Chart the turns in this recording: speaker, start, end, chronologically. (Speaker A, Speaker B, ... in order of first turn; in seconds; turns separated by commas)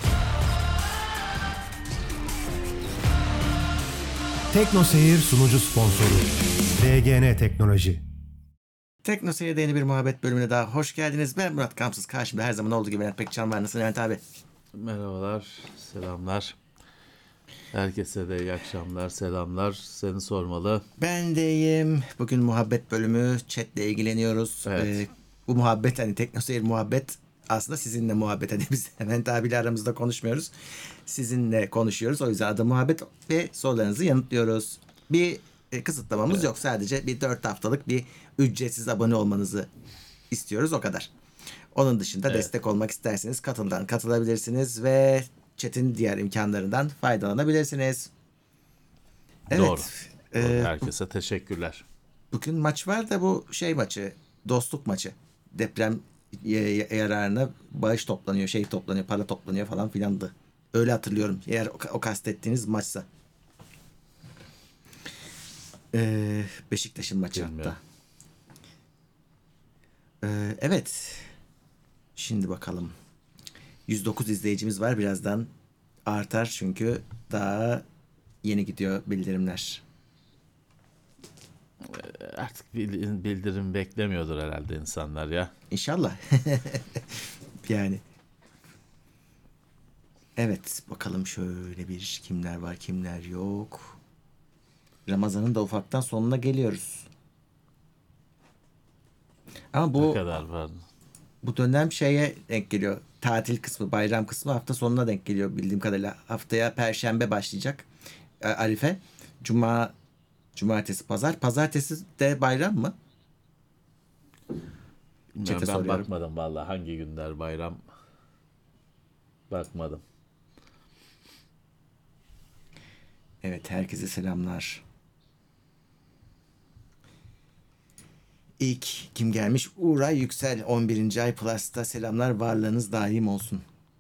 Speaker A: 4.5-8.0, Speaker B: 9.0-14.2, Speaker C: 14.7-16.6, Speaker C: 17.7-20.8, Speaker B: 21.0-30.5, Speaker C: 24.6-25.0, Speaker B: 31.0-39.7, Speaker B: 40.3-41.1, Speaker B: 41.7-48.1, Speaker C: 49.5-51.8, Speaker B: 49.5-50.8, Speaker B: 52.3-63.0, Speaker B: 65.9-67.8, Speaker C: 67.3-67.8, Speaker B: 70.2-71.3, Speaker B: 72.2-72.9, Speaker B: 73.9-75.5, Speaker B: 76.1-77.8, Speaker B: 78.4-79.8, Speaker C: 81.8-85.5, Speaker B: 85.7-88.0, Speaker B: 90.3-94.0, Speaker B: 95.1-97.1, Speaker B: 99.7-100.2, Speaker C: 100.0-100.8, Speaker B: 101.4-107.9, Speaker B: 108.4-109.9, Speaker B: 110.5-112.9, Speaker C: 115.3-117.8, Speaker B: 115.4-116.0, Speaker C: 119.5-120.0, Speaker B: 123.4-124.8, Speaker B: 128.6-133.6